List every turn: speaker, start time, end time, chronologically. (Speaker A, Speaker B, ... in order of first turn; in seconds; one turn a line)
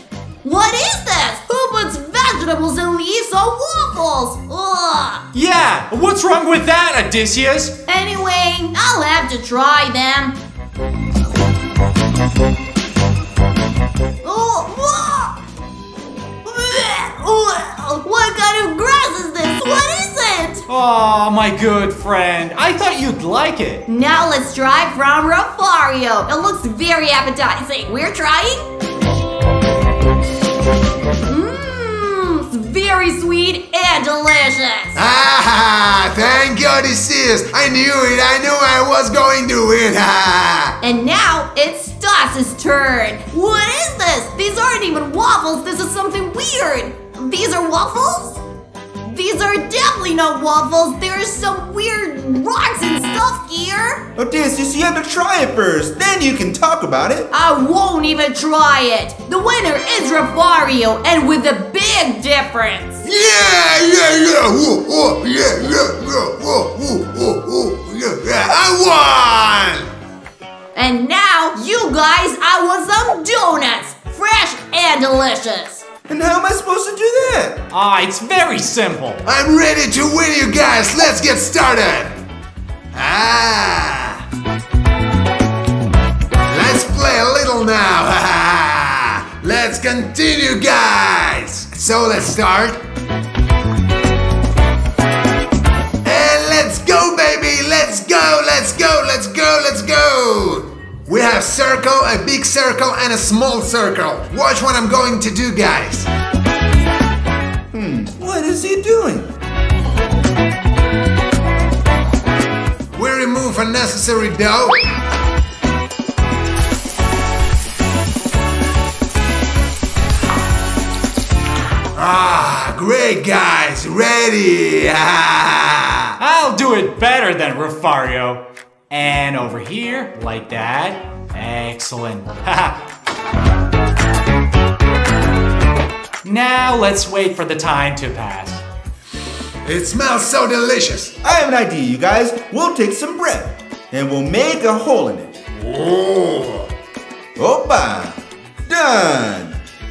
Speaker A: 0.4-5.3
Speaker B: 5.3-7.8
Speaker A: 7.9-10.4
Speaker A: 14.2-15.4
Speaker A: 16.4-20.6
Speaker B: 20.7-23.9
Speaker A: 23.9-28.7
Speaker A: 31.2-35.0
Speaker C: 35.0-40.8
Speaker A: 40.8-48.4
Speaker A: 49.0-54.0
Speaker D: 54.2-57.3
Speaker A: 57.3-63.0
Speaker C: 63.0-69.9
Speaker A: 70.8-75.8
Speaker D: 76.1-77.6
Speaker B: 77.7-79.2
Speaker C: 79.3-82.2
Speaker C: 82.9-84.2
Speaker C: 86.5-92.8
Speaker C: 96.0-106.1
Speaker D: 107.7-109.3
Speaker C: 112.9-114.8
Speaker C: 122.0-126.2
Speaker B: 126.2-132.9
Speaker B: 136.2-138.6
Speaker C: 139.7-141.2
Speaker D: 141.2-145.4
Speaker C: 145.6-146.7
Speaker D: 147.4-149.6